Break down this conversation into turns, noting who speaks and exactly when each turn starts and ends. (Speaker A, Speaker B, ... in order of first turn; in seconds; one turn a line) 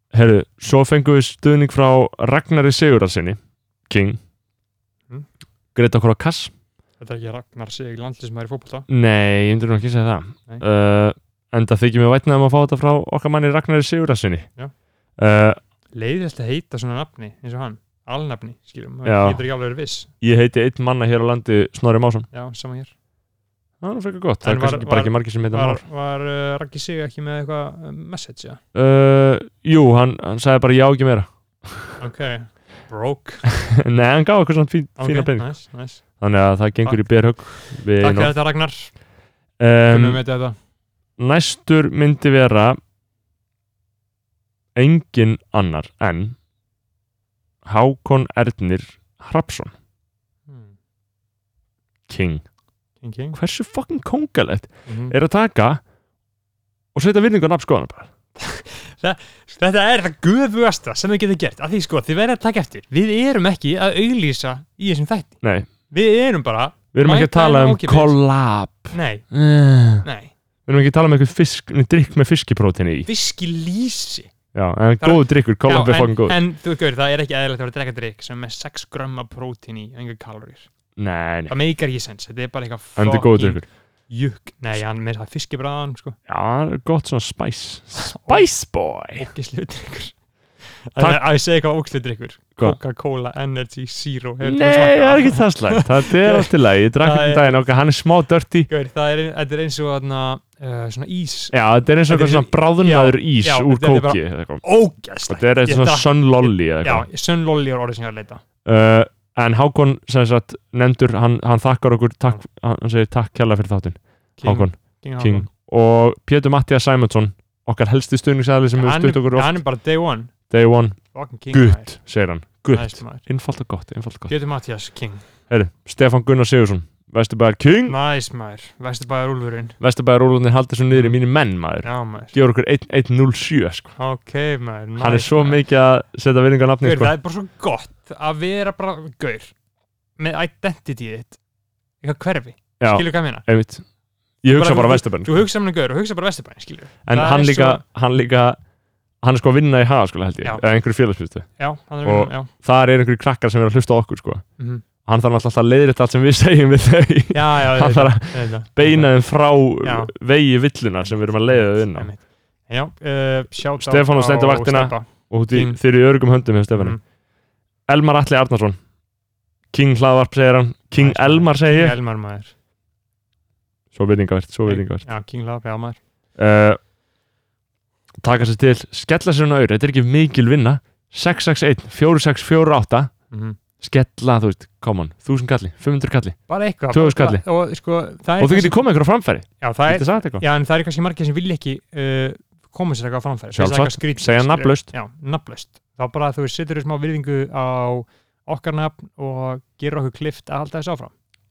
Speaker A: 0.1-4.2
Speaker A: 5.7-6.5
Speaker B: 7.0-8.8
Speaker A: 8.9-14.5
Speaker A: 15.2-15.6
Speaker B: 15.9-20.1
Speaker A: 19.0-19.4
Speaker A: 20.2-22.3
Speaker B: 22.3-22.9
Speaker A: 23.8-25.8
Speaker B: 24.4-28.6
Speaker A: 28.7-32.0
Speaker B: 32.0-33.6
Speaker A: 33.8-38.4
Speaker B: 35.0-36.2
Speaker B: 36.8-39.0
Speaker A: 39.6-40.2
Speaker B: 39.9-40.5
Speaker A: 41.2-42.8
Speaker A: 44.7-46.4
Speaker A: 47.6-49.7
Speaker B: 50.5-50.7
Speaker A: 52.1-52.4
Speaker B: 53.0-53.4
Speaker A: 53.3-55.8
Speaker B: 54.9-55.1
Speaker A: 56.9-58.1
Speaker B: 58.4-68.2
Speaker A: 65.4-65.7
Speaker A: 66.9-70.1
Speaker B: 68.9-69.3
Speaker B: 70.0-70.3
Speaker A: 70.7-73.1
Speaker B: 73.0-74.3
Speaker A: 74.5-76.3
Speaker B: 75.0-80.7
Speaker A: 81.0-81.5
Speaker B: 81.5-86.2
Speaker A: 83.0-83.7
Speaker A: 86.3-89.3
Speaker B: 88.0-88.5
Speaker B: 89.1-90.2
Speaker B: 90.9-97.6
Speaker A: 91.0-91.2
Speaker A: 94.4-98.7
Speaker B: 98.7-101.5
Speaker A: 101.5-104.6
Speaker B: 102.0-108.4
Speaker A: 105.3-107.0
Speaker A: 108.6-119.6
Speaker B: 114.4-115.5
Speaker B: 118.8-120.4
Speaker A: 120.5-124.3
Speaker B: 121.1-122.1
Speaker B: 122.7-123.2
Speaker B: 124.3-125.3
Speaker A: 125.5-128.0
Speaker B: 127.9-129.8
Speaker A: 129.8-133.9
Speaker B: 130.9-131.2
Speaker B: 131.8-132.3
Speaker B: 133.9-135.6
Speaker A: 135.0-137.1
Speaker B: 136.8-139.5
Speaker B: 140.2-141.4
Speaker B: 142.0-143.4
Speaker A: 142.8-143.8
Speaker A: 144.4-145.3
Speaker B: 144.5-147.8
Speaker A: 147.1-148.6
Speaker A: 149.2-154.4
Speaker B: 151.6-152.5
Speaker B: 154.6-154.8
Speaker A: 155.0-162.1
Speaker B: 157.3-160.1
Speaker B: 161.0-165.8
Speaker A: 163.8-167.0
Speaker B: 166.7-167.0
Speaker A: 167.9-168.8
Speaker A: 169.7-171.9
Speaker B: 170.9-172.5
Speaker A: 173.9-175.1
Speaker B: 174.7-176.0
Speaker A: 176.3-176.8
Speaker A: 178.2-183.1
Speaker B: 183.3-183.6
Speaker A: 183.8-187.4
Speaker B: 186.5-188.8
Speaker A: 188.4-190.4
Speaker B: 189.6-201.1
Speaker A: 193.5-194.9